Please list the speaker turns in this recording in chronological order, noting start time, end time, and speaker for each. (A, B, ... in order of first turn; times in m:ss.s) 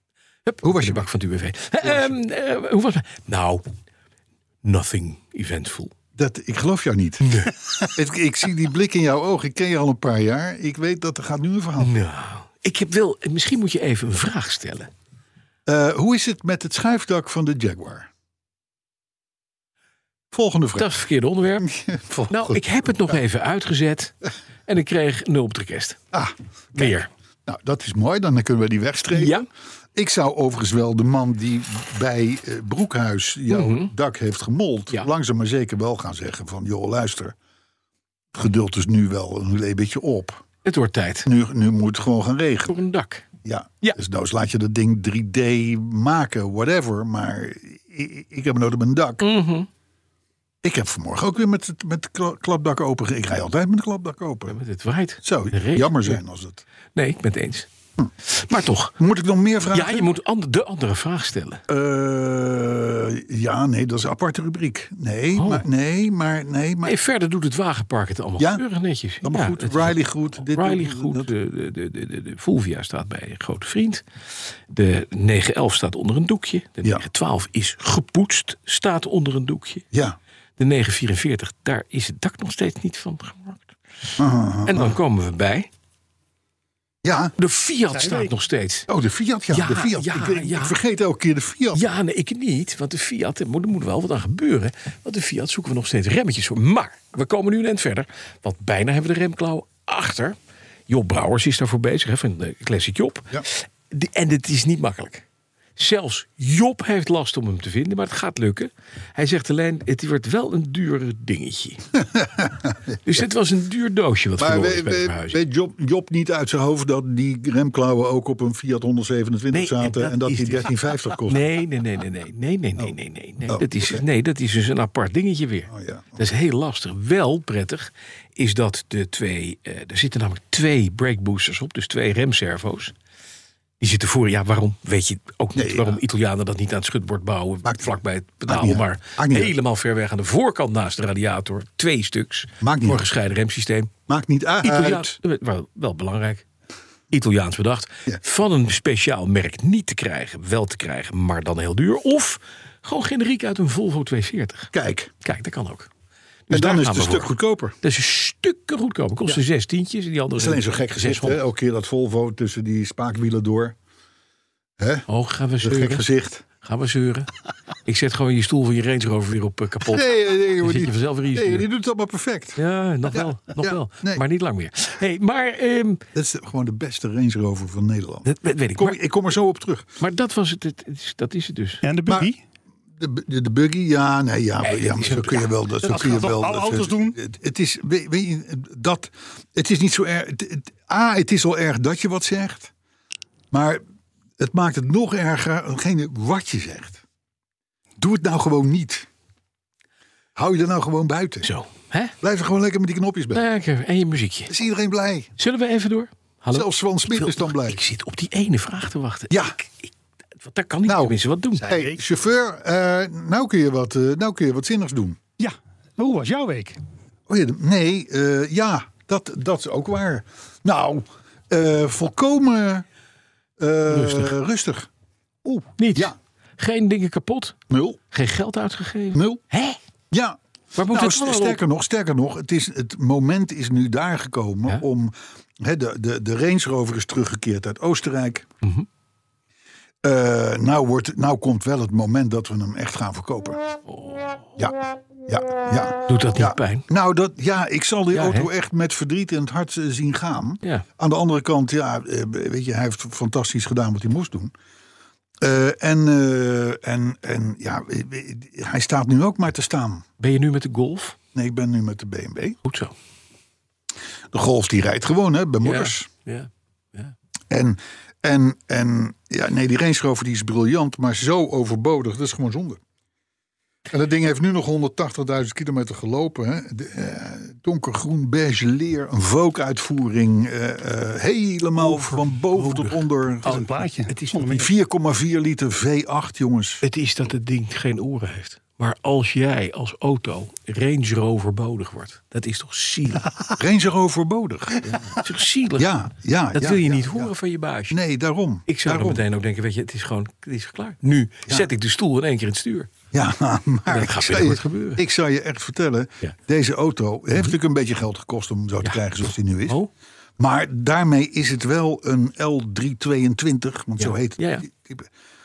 0:00.4-0:03.6 A
0:00.6-0:01.1 B
0:04.6-0:05.9 A
0:06.2-0:12.0 B
0:07.2-0:07.6 A
0:11.8-0:14.9 A
0:15.6-0:18.1 B
0:20.3-0:21.0 B
0:20.8-0:21.7 A
0:21.6-0:22.6 B
0:22.3-0:24.1 A
0:24.7-0:26.0 A
0:26.1-0:37.3 B
0:26.7-0:27.1 A
0:29.1-0:29.5 A
0:33.5-0:33.9 A
0:38.3-0:40.4 B
0:40.6-0:41.3 A
0:41.2-0:42.8 B
0:42.7-0:43.2 A
0:43.4-0:49.3 B
0:49.2-0:49.7 A
0:50.6-0:54.6 B
0:54.5-0:56.2 A
0:55.2-0:56.6 B
0:56.9-0:57.7 A
0:58.2-0:58.9 A
0:59.0-1:00.1 B
0:59.7-1:01.6 A
1:01.7-1:07.0 B
1:05.3-1:05.6 A
1:06.8-1:14.0 A
1:08.4-1:08.6 B
1:09.2-1:11.3 B
1:14.7-1:19.8 A
1:19.9-1:20.2 B
1:20.6-1:23.8 A
1:24.2-1:25.0 B
1:24.6-1:25.7 A
1:27.0-1:27.3 B
1:27.4-1:28.9 A
1:27.9-1:28.3 C
1:28.9-1:31.8 B
1:29.5-1:30.7 A
1:31.7-1:40.4 A
1:40.9-1:45.2 A
1:45.8-1:51.9 A
1:52.0-1:53.0 B
1:53.0-1:55.4 A
1:54.4-2:01.4 B
1:59.5-2:00.7 A
2:01.2-2:12.9 A
2:03.5-2:04.0 B
2:05.7-2:06.2 B
2:13.8-2:23.9 A
2:15.5-2:16.0 B
2:17.6-2:19.5 B
2:22.6-2:23.1 B
2:24.1-2:25.2 B
2:24.6-2:26.4 A
2:27.1-2:34.7 A
2:34.7-2:35.1 B
2:35.2-2:35.9 A
2:36.5-2:41.4 A
2:36.5-2:37.8 B
2:40.4-2:43.8 B
2:44.8-2:45.1 B
2:45.1-2:46.0 A
2:45.6-2:46.4 B
2:46.6-2:47.3 A
2:47.8-2:51.6 A
2:49.8-2:54.2 B
2:52.6-2:56.0 A
2:56.1-3:00.0 B
2:58.2-2:59.0 A
3:00.0-3:01.8 A
3:01.8-3:02.4 C
3:02.1-3:02.3 B
3:03.0-3:12.7 B
3:04.6-3:05.6 A
3:05.8-3:07.2 C
3:13.5-3:13.8 B
3:14.4-3:17.0 B
3:18.0-3:19.1 B
3:20.4-3:21.5 B
3:21.4-3:22.1 A
3:22.2-3:23.4 B
3:23.3-3:24.5 A
3:24.5-3:25.3 B
3:25.4-3:31.6 A
3:26.5-3:27.8 B
3:29.3-3:29.6 B
3:30.8-3:35.2 B
3:31.6-3:32.0 C
3:35.4-3:36.8 C
3:37.3-3:42.8 B
3:43.6-3:44.9 B
3:43.9-3:44.3 A
3:45.4-3:46.1 B
3:45.8-3:47.6 A
3:47.7-3:48.0 B
3:48.1-3:49.8 A
3:49.1-3:49.4 B
3:50.1-3:58.5 B
3:50.7-3:51.6 A
3:58.6-3:58.9 A
4:00.0-4:03.6 B
4:03.8-4:04.5 A
4:04.6-4:14.5 B
4:06.1-4:06.8 A
4:08.1-4:08.5 A
4:15.4-4:20.0 B
4:20.2-4:21.2 A
4:21.3-4:22.6 B
4:22.6-4:22.9 A
4:24.3-4:26.1 B
4:25.6-4:27.1 A
4:27.5-4:32.8 B
4:33.9-4:43.6 B
4:41.8-4:44.5 A
4:43.4-4:44.7 C
4:44.3-4:46.8 B
4:46.8-4:53.3 A
4:53.5-4:54.9 B
4:54.8-4:55.9 A
4:55.8-4:57.3 B
4:56.5-4:58.0 A
4:57.9-4:59.2 B
4:58.7-5:02.9 A
5:03.1-5:09.8 B
5:03.9-5:05.0 A
5:10.4-5:15.1 B
5:14.0-5:14.6 A